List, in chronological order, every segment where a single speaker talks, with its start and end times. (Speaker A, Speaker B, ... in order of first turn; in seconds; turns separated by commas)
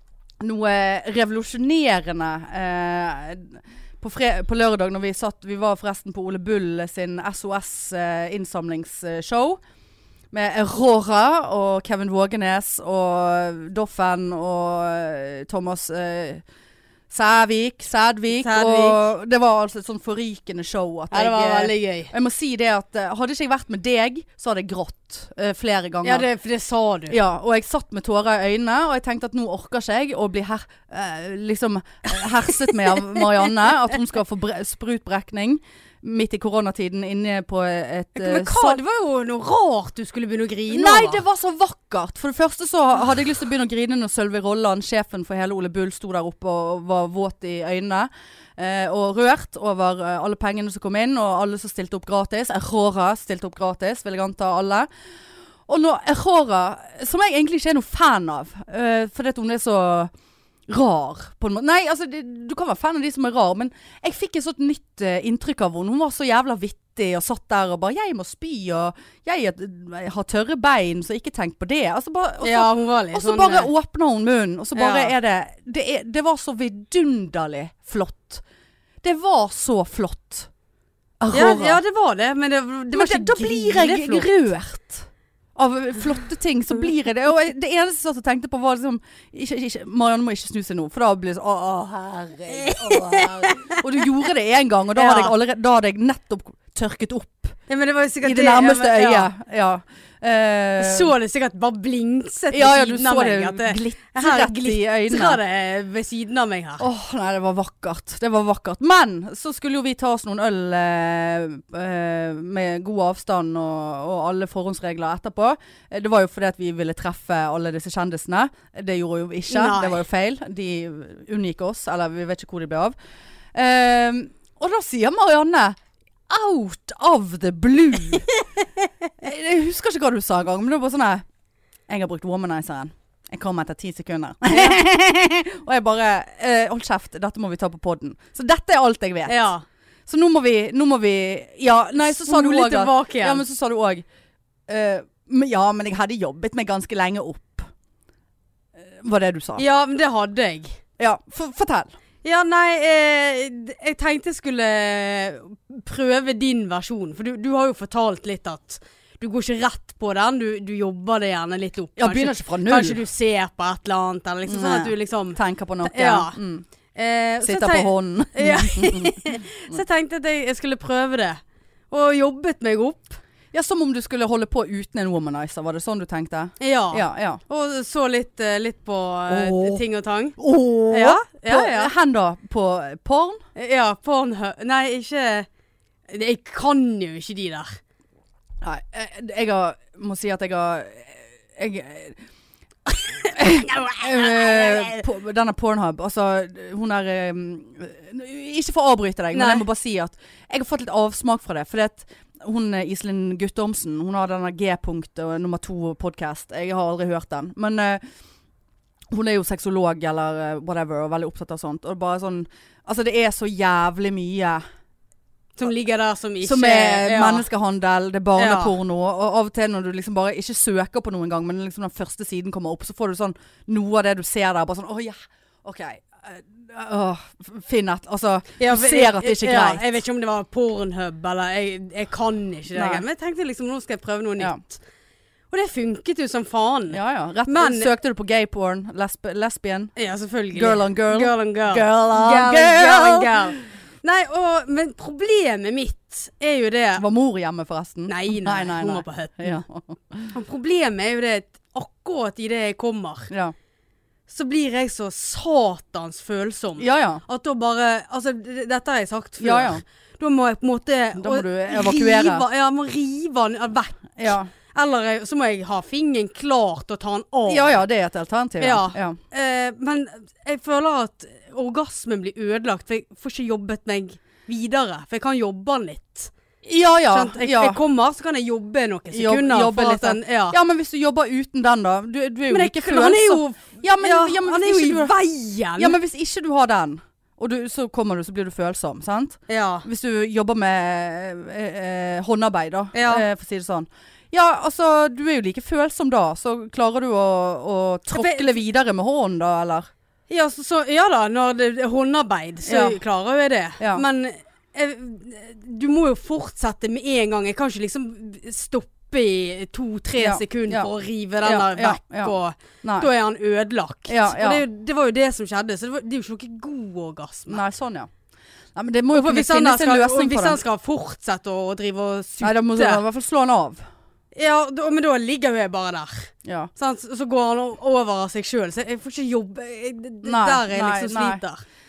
Speaker A: 0.4-9.6, Speaker A: 10.3-16.4, Speaker A: 17.1-26.2, Speaker B: 18.3-19.0, Speaker B: 21.1-22.1, Speaker B: 26.0-27.2, Speaker A: 27.1-38.8, Speaker B: 38.1-41.2, Speaker A: 40.7-54.9, Speaker A: 55.7-60.1, Speaker A: 60.7-78.4, Speaker B: 72.4-73.7, Speaker B: 74.7-75.1, Speaker A: 79.0-80.5, Speaker A: 81.2-81.8, Speaker B: 81.3-84.3, Speaker A: 82.9-97.6, Speaker B: 92.5-93.8, Speaker B: 94.9-95.3, Speaker B: 97.7-99.3, Speaker A: 98.2-101.1, Speaker B: 100.8-106.8, Speaker A: 102.5-105.4, Speaker A: 106.8-123.0, Speaker B: 119.5-120.0, Speaker A: 123.5-125.8, Speaker A: 126.3-128.3, Speaker A: 129.2-131.2, Speaker A: 131.9-139.4, Speaker B: 139.3-139.6, Speaker A: 140.1-144.1, Speaker B: 142.0-143.4, Speaker A: 144.7-147.7, Speaker A: 148.8-149.6, Speaker B: 149.6-150.8, Speaker A: 151.0-151.9, Speaker B: 152.2-166.4, Speaker A: 162.0-163.0, Speaker A: 164.5-166.6, Speaker B: 166.9-173.2, Speaker A: 167.4-169.8, Speaker A: 173.5-177.4, Speaker B: 176.6-180.4, Speaker A: 179.3-179.8, Speaker A: 180.4-183.4, Speaker B: 180.9-181.9, Speaker B: 183.6-185.5, Speaker B: 186.1-187.8, Speaker A: 188.6-192.2, Speaker A: 192.9-208.0, Speaker B: 193.7-195.0, Speaker B: 199.3-199.6, Speaker A: 209.1-214.6, Speaker B: 215.6-217.4, Speaker A: 216.4-229.8, Speaker B: 218.3-218.7, Speaker B: 228.6-234.8, Speaker A: 232.7-233.0, Speaker B: 235.5-237.9, Speaker A: 236.9-239.9, Speaker B: 239.9-247.0, Speaker A: 240.5-243.6, Speaker A: 247.0-250.3, Speaker B: 248.1-249.6, Speaker B: 250.3-253.3, Speaker B: 254.3-267.8, Speaker A: 256.8-257.2, Speaker A: 259.4-259.8, Speaker A: 261.2-262.4, Speaker A: 264.2-264.5, Speaker A: 267.5-269.2, Speaker B: 268.6-276.3, Speaker A: 276.6-277.8, Speaker B: 277.1-280.6, Speaker A: 279.1-285.1, Speaker B: 282.5-286.0, Speaker A: 285.8-299.9, Speaker B: 289.5-289.9, Speaker B: 292.9-293.2, Speaker B: 298.1-298.6, Speaker B: 300.3-317.6, Speaker A: 302.6-303.0, Speaker A: 303.8-304.0, Speaker A: 310.2-310.9, Speaker A: 311.4-313.1, Speaker A: 314.1-314.6, Speaker A: 317.5-318.1, Speaker A: 318.7-320.6, Speaker B: 319.1-323.0, Speaker A: 322.4-323.8, Speaker B: 324.3-331.6, Speaker A: 326.4-326.7, Speaker A: 330.2-331.4